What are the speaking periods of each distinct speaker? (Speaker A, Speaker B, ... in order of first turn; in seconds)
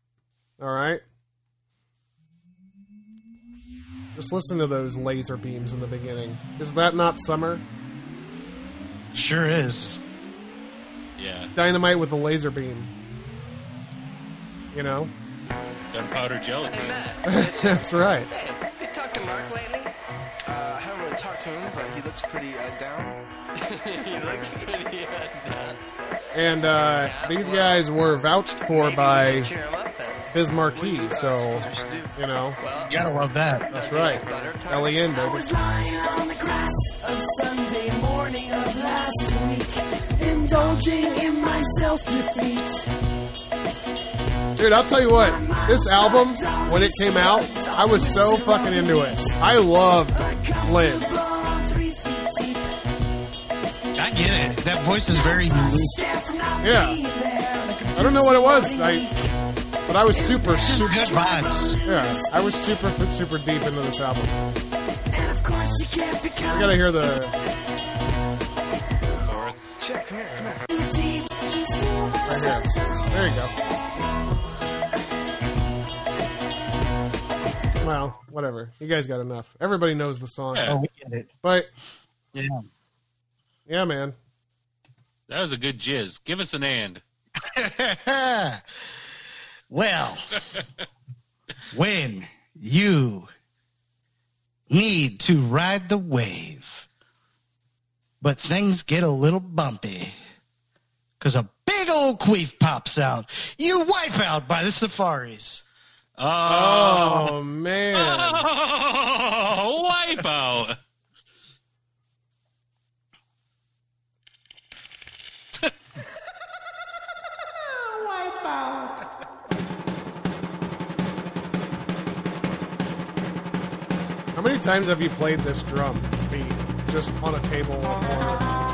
Speaker A: 0.6-1.0, 4.1-7.6, 11.6-12.9, 14.7-15.1, 17.3-18.3, 26.3-29.5, 30.3-32.6, 33.7-35.4, 44.6-51.0, 56.6-57.0, 58.0-59.0, 59.9-61.1, 61.9-64.4, 66.5-67.3, 72.2-73.5, 77.8-80.8, 81.4-81.7, 83.7-84.1, 106.5-108.5, 124.3-128.4
Speaker B: 9.1-10.0, 32.9-33.7, 54.0-56.0, 60.6-61.8, 80.6-81.3, 82.3-82.6, 87.4-88.6, 89.7-90.4, 91.7-93.3, 94.7-96.9, 98.2-100.2, 101.2-105.6
Speaker C: 11.2-11.5, 15.9-17.1, 69.2-69.8, 80.5-80.8, 85.3-87.0, 106.2-107.3, 108.0-110.8
Speaker D: 16.7-19.9, 21.1-21.7, 23.9-25.8, 27.0-27.8, 28.7-30.2, 30.9-33.1, 33.7-35.1, 69.8-70.6
Speaker E: 35.1-42.9, 45.1-49.4, 50.1-52.7, 55.1-59.3, 60.1-62.6, 65.1-67.1, 70.7-73.1, 118.5-118.9